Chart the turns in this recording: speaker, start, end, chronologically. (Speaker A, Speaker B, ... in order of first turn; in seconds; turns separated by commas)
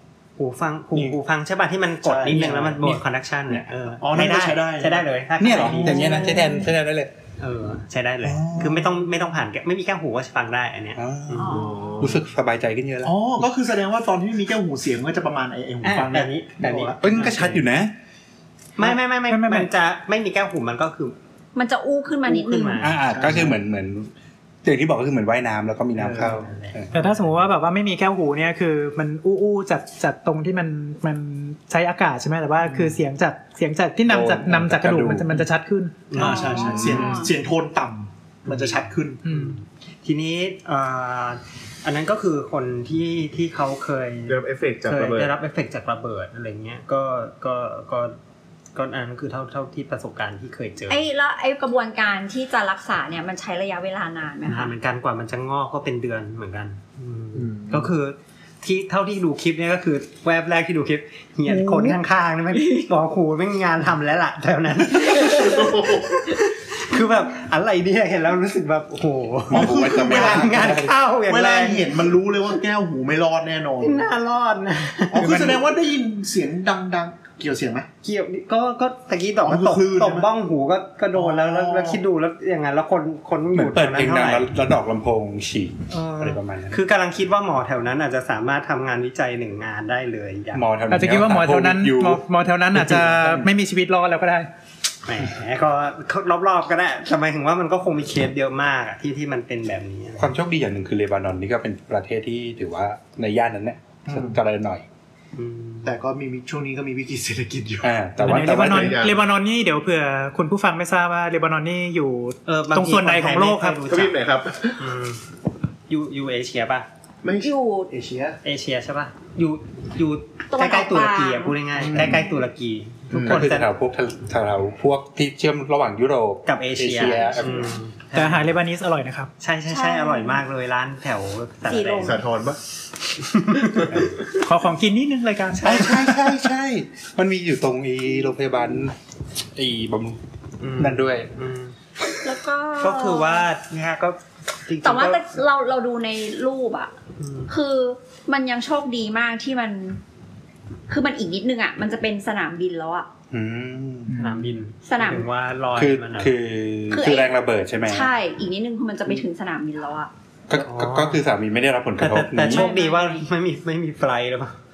Speaker A: 0.4-6.5, Speaker B: 2.0-3.0, Speaker C: 2.3-3.0, Speaker B: 4.0-5.1, Speaker C: 5.4-7.1, Speaker D: 5.8-6.7, Speaker B: 6.0-6.3, Speaker A: 7.4-11.7, Speaker B: 8.2-9.0, Speaker C: 11.0-13.2, Speaker D: 11.4-12.0, Speaker E: 11.5-12.2, Speaker B: 13.0-17.6, Speaker A: 15.8-17.6, Speaker C: 17.0-17.9, Speaker A: 18.8-21.2, Speaker F: 18.8-19.7, Speaker D: 21.6-22.9, Speaker A: 22.3-22.9, Speaker C: 22.8-24.1, Speaker B: 23.1-23.6, Speaker C: 24.6-26.9, Speaker A: 26.0-27.3, Speaker F: 26.9-36.5, Speaker A: 32.6-33.0, Speaker C: 34.1-35.4, Speaker A: 36.1-37.0, Speaker D: 36.1-37.3, Speaker B: 36.1-39.2, Speaker E: 36.4-37.2, Speaker A: 38.5-48.1, Speaker F: 39.2-39.6, Speaker E: 44.3-45.4, Speaker A: 48.8-51.1, Speaker D: 50.9-54.7, Speaker A: 54.5-71.9, Speaker E: 57.4-57.7, Speaker F: 61.7-61.9, Speaker D: 62.5-62.9, Speaker E: 65.1-66.2, Speaker B: 69.5-74.1, Speaker C: 69.5-70.9, Speaker A: 73.8-75.6, Speaker B: 75.1-77.9, Speaker F: 75.2-75.6, Speaker A: 78.0-84.5, Speaker B: 79.4-80.3, Speaker B: 81.1-82.0, Speaker C: 83.5-86.8, Speaker A: 85.9-90.7, Speaker C: 90.5-92.2, Speaker F: 90.9-94.5, Speaker C: 92.7-93.5, Speaker A: 95.0-100.3, Speaker C: 100.2-104.8, Speaker B: 104.0-104.4, Speaker A: 105.4-106.0, Speaker B: 105.8-108.0, Speaker C: 107.8-109.0, Speaker F: 108.2-113.9, Speaker E: 108.6-109.2, Speaker A: 112.5-114.2, Speaker E: 113.8-114.9, Speaker A: 114.8-115.2, Speaker A: 115.9-116.9, Speaker E: 117.2-117.6, Speaker D: 117.4-117.9, Speaker B: 117.9-118.4, Speaker A: 118.4-123.7, Speaker D: 120.5-122.3, Speaker B: 121.8-122.3, Speaker E: 123.1-123.5, Speaker C: 123.2-127.7, Speaker A: 126.5-128.4, Speaker D: 127.0-127.6, Speaker F: 128.1-129.3, Speaker A: 129.4-132.2, Speaker D: 129.7-130.4, Speaker D: 131.7-132.2, Speaker E: 132.0-132.6, Speaker A: 133.2-134.1, Speaker F: 134.4-136.1, Speaker C: 135.6-138.9, Speaker C: 139.6-140.2, Speaker A: 140.6-141.7, Speaker C: 140.8-141.3, Speaker D: 142.2-143.5, Speaker A: 142.8-145.2, Speaker D: 144.8-146.9, Speaker A: 147.2-147.5, Speaker D: 147.5-150.0, Speaker D: 150.9-153.1, Speaker C: 153.3-154.2, Speaker B: 154.1-154.6, Speaker A: 154.2-156.3, Speaker D: 154.9-155.3, Speaker C: 155.8-158.1, Speaker D: 156.9-160.1, Speaker C: 160.5-162.7, Speaker A: 160.5-161.2, Speaker A: 162.0-164.6, Speaker D: 162.4-163.2